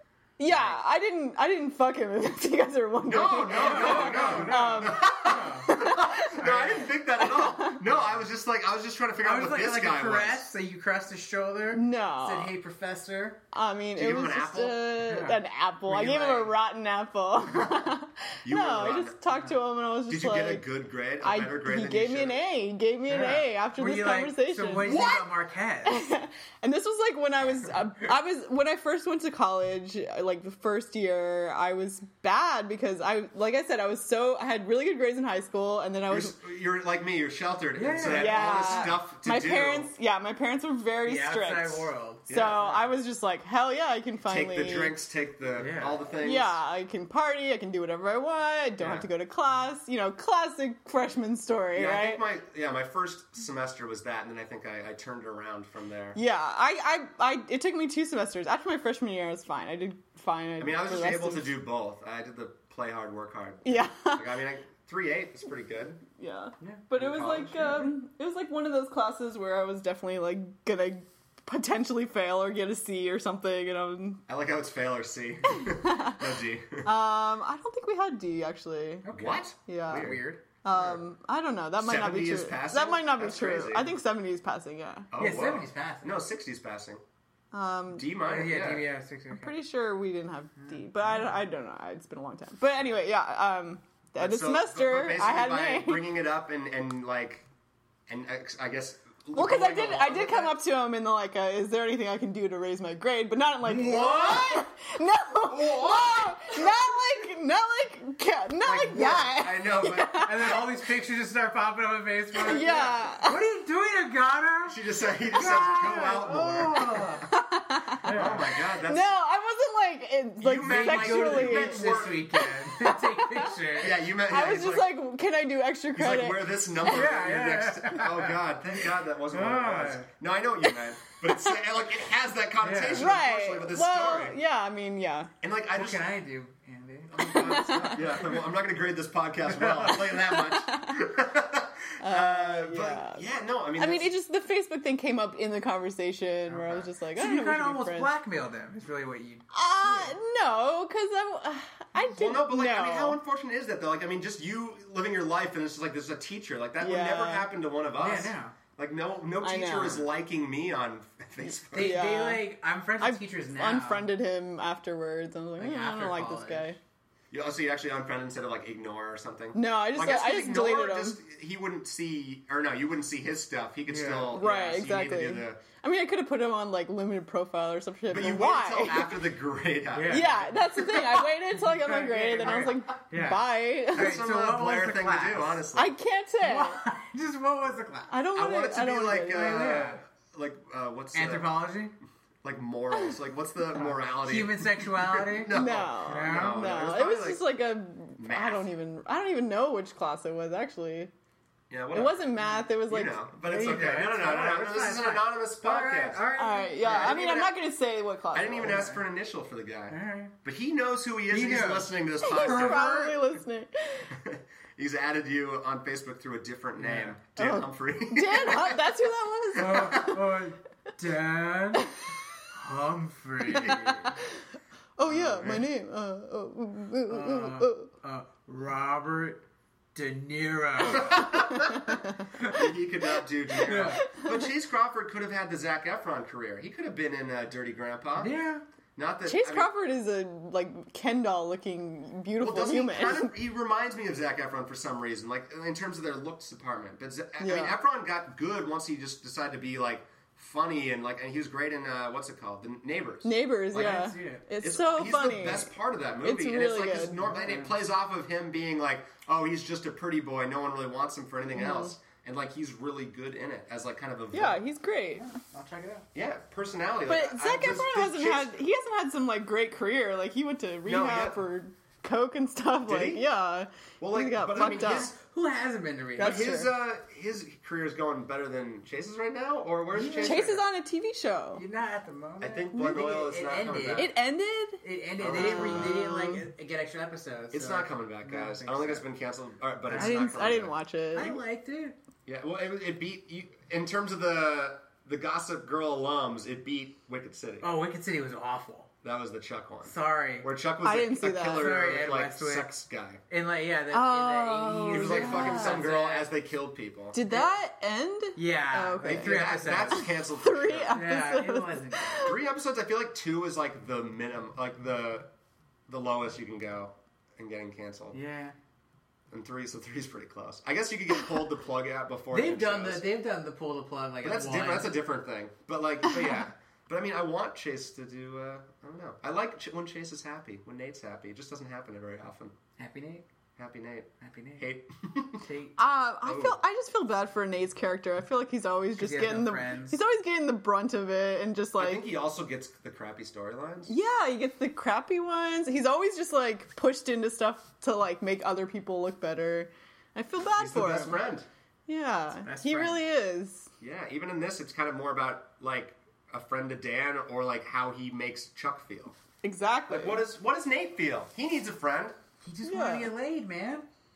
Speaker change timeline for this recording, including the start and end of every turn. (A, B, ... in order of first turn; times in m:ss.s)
0:00.4-0:07.8 A
0:00.4-0:00.8 B
0:03.0-0:10.5 B
0:03.5-0:05.7 C
0:06.4-0:06.9 C
0:09.2-0:13.4 C
0:11.7-0:12.5 A
0:13.5-0:20.6 A
0:14.0-0:14.9 B
0:15.0-0:16.5 C
0:17.5-0:17.9 B
0:18.4-0:19.2 B
0:20.1-0:22.4 B
0:21.2-0:25.1 A
0:23.1-0:26.0 C
0:24.8-0:25.2 B
0:25.8-0:36.4 A
0:36.1-0:39.9 B
0:37.8-0:39.0 C
0:38.0-0:45.0 A
0:41.0-0:42.9 C
0:42.3-0:42.6 B
0:44.2-0:46.6 B
0:45.5-0:46.1 C
0:46.2-0:52.2 A
0:48.8-0:49.1 B
0:51.7-0:56.2 B
0:56.1-1:01.6 A
1:00.6-1:06.0 B
1:03.6-1:04.2 A
1:06.2-1:14.2 A
1:06.6-1:06.9 C
1:07.0-1:07.9 B
1:14.3-1:16.9 B
1:15.5-1:16.2 A
1:16.8-1:19.1 A
1:19.0-1:20.4 C
1:19.1-1:21.0 B
1:19.6-1:25.1 A
1:21.8-1:23.9 B
1:25.1-1:27.0 B
1:25.2-1:26.2 C
1:27.5-1:28.1 A
1:27.9-1:28.9 B
1:28.2-1:29.5 C
1:29.3-1:36.1 A
1:31.0-1:31.3 C
1:34.2-1:37.4 B
1:38.1-1:40.6 B
1:39.3-1:50.6 A
1:43.6-1:44.5 C
1:43.6-1:44.7 B
1:45.5-1:46.6 B
1:48.6-1:50.6 B
1:50.2-1:54.8 C
1:52.3-1:53.4 A
1:54.7-1:57.3 B
1:55.3-1:57.2 C
1:55.3-1:56.0 A
1:57.2-1:58.0 A
1:58.0-1:58.5 C
1:58.1-1:59.1 B
1:58.8-2:03.5 A
2:00.4-2:02.2 B
2:00.6-2:04.0 C
2:03.8-2:04.9 B
2:04.3-2:06.7 A
2:05.9-2:14.4 B
2:06.8-2:10.1 C
2:11.2-2:11.6 A
2:12.6-2:13.1 C
2:12.9-2:15.3 A
2:15.4-2:16.1 B
2:15.7-2:18.3 C
2:17.1-2:24.1 B
2:17.2-2:18.3 A
2:19.4-2:20.2 C
2:20.2-2:21.0 A
2:22.0-2:23.2 A
2:23.8-2:28.1 A
2:26.5-2:30.1 C
2:29.5-2:33.2 A
2:31.9-2:42.0 B
2:36.8-2:37.5 A
2:38.0-2:38.6 C
2:39.4-2:40.1 A
2:41.4-2:42.4 A
2:41.7-2:44.1 C
2:43.0-2:46.8 A
2:45.6-2:46.8 C
2:47.3-2:55.6 B
2:49.5-2:51.2 A
2:53.9-2:54.4 C
2:54.3-2:59.2 A
2:58.1-3:00.7 B
2:59.9-3:05.7 C
3:00.1-3:04.1 A
3:03.9-3:05.9 B
3:05.7-3:06.8 A
3:06.4-3:08.1 C
3:08.1-3:09.7 A
3:08.4-3:11.5 B
3:09.3-3:10.0 C
3:11.1-3:11.9 C
3:12.4-3:17.4 B
3:13.7-3:15.5 C
3:15.5-3:21.1 A
3:16.1-3:16.6 C
3:18.2-3:18.7 B
3:21.7-3:22.3 B
3:21.9-3:23.2 A
3:22.9-3:26.2 B
3:23.4-3:27.2 C
3:26.4-3:28.8 A
3:26.8-3:27.5 B
3:28.3-3:33.4 B
3:28.6-3:29.0 C
3:29.9-3:30.3 C
3:31.3-3:32.8 C
3:32.2-3:34.1 A
3:34.1-3:38.9 B
3:36.8-3:37.2 C
3:37.4-3:40.4 A
3:39.6-3:40.1 B
3:39.6-3:41.9 C
3:41.8-3:42.0 A
3:42.5-3:44.2 C
3:43.5-3:44.0 A
3:45.0-3:47.9 A
3:45.0-3:45.7 B
3:47.1-3:49.4 C
3:49.9-3:51.3 C
3:50.8-3:58.4 B
3:51.1-3:52.7 A
3:53.6-3:54.5 A
3:53.6-3:54.0 C
3:58.2-3:58.6 C
3:59.0-3:59.7 B
3:59.2-4:03.3 A
4:02.4-4:24.6 B
4:07.4-4:07.8 A
4:13.2-4:17.2 A
4:13.7-4:14.4 C
4:17.2-4:17.8 C
4:21.5-4:21.9 A
4:24.3-4:25.3 A
4:25.2-4:26.0 C
4:26.1-4:28.6 B
4:27.1-4:35.1 A
4:30.8-4:31.4 B
4:32.8-4:33.2 B
4:34.0-4:35.2 B
4:34.5-4:36.5 C
4:36.2-4:36.7 A
4:36.2-4:40.6 B
4:39.9-4:40.5 C
4:40.2-4:41.6 A
4:41.5-4:44.1 C
4:42.4-4:44.1 B
4:43.9-4:46.4 A
4:44.8-4:49.0 C
4:45.2-4:46.0 B
4:47.5-4:51.4 B
4:49.9-4:50.5 C
4:49.9-4:51.3 A
4:51.1-4:51.9 C
4:52.2-4:57.7 B
4:57.6-4:58.9 C
4:59.0-5:03.2 B
4:59.8-5:00.5 C
5:00.8-5:01.7 A
5:01.5-5:02.7 C
5:03.3-5:06.3 C
5:03.9-5:05.8 A
5:04.9-5:07.2 B
5:07.1-5:09.4 A
5:08.4-5:10.0 C
5:09.0-5:11.0 B
5:09.9-5:12.3 A
5:10.9-5:12.4 C
5:12.2-5:15.3 B
5:15.9-5:18.2 B
5:18.1-5:18.5 C
5:19.3-5:23.0 B
5:22.3-5:25.0 C
5:24.2-5:32.6 B
5:32.8-5:33.2 C
5:33.6-5:35.5 B
5:34.2-5:34.6 C
5:35.4-5:35.8 C
5:35.8-5:42.0 A
5:36.2-5:36.6 B
5:39.0-5:40.0 C
5:41.8-5:43.9 B
5:43.9-5:51.2 A
5:50.6-5:51.5 B
5:51.9-5:53.7 A
5:52.4-5:53.0 C
5:53.8-5:59.1 B
5:59.4-6:00.2 A
5:59.9-6:02.2 B
6:02.4-6:03.8 C
6:02.6-6:03.1 A